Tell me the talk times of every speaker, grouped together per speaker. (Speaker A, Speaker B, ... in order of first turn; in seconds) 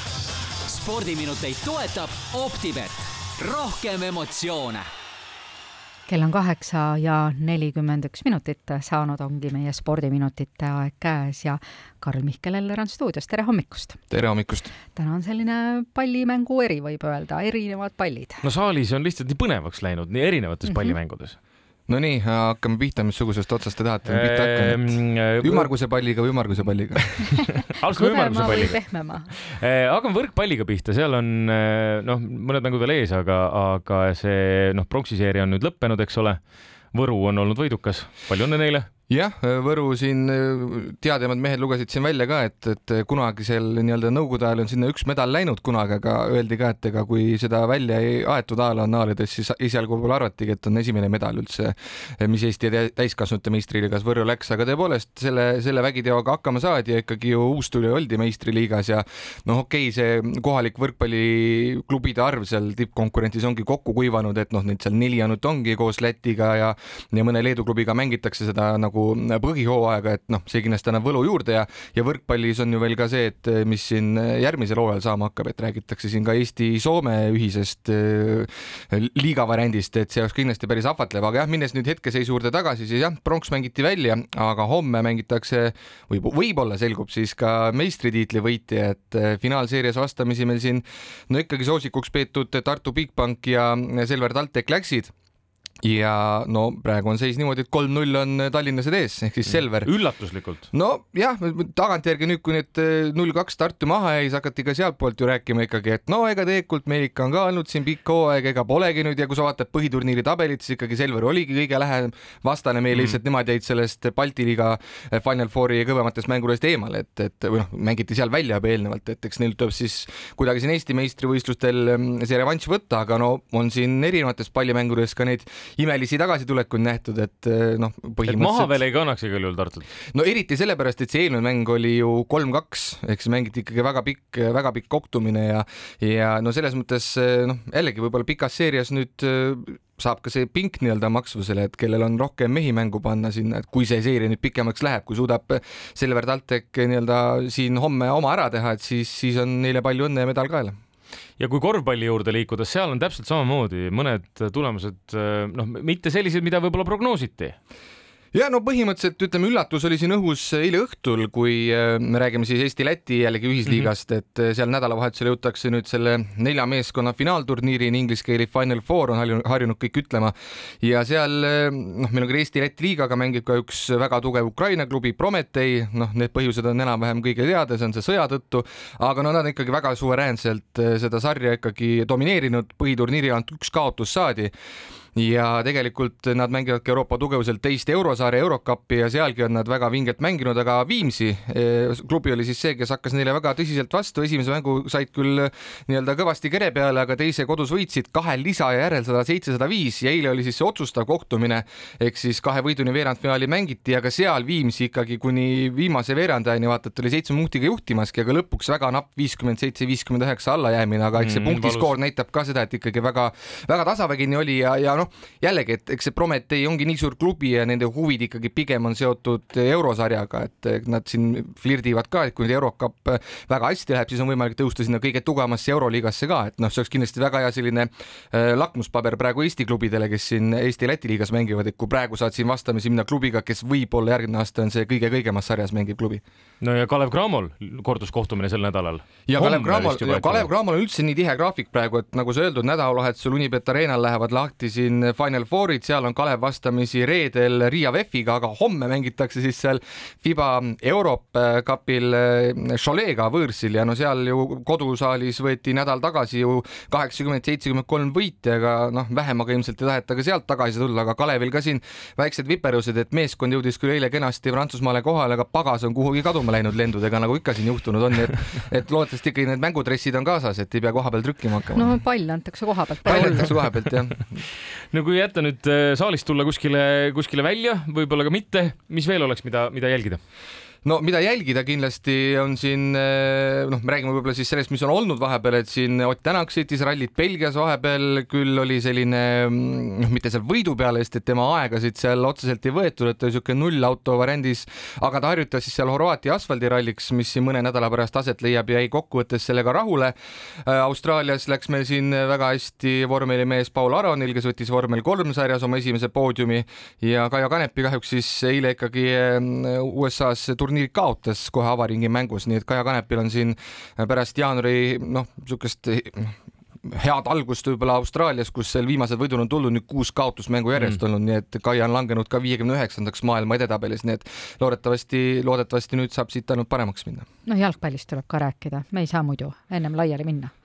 Speaker A: 0.7-4.9
Speaker B: 6.1-14.0, 14.9-18.4, 20.6-21.0, 27.8-29.3, 271.7-273.5, 327.4-330.5
Speaker C: 14.1-14.7, 21.9-27.2, 39.1-95.1, 95.8-99.9, 100.7-128.7, 130.1-150.8, 158.3-184.5, 185.2-236.2, 239.3-272.0, 273.1-274.4, 280.8-327.2
Speaker D: 18.4-21.4, 24.1-25.7, 27.3-28.8, 29.3-36.4, 36.9-38.9, 99.5-100.7, 128.3-129.9, 151.4-157.6, 211.2-211.9, 236.6-240.5, 274.9-280.2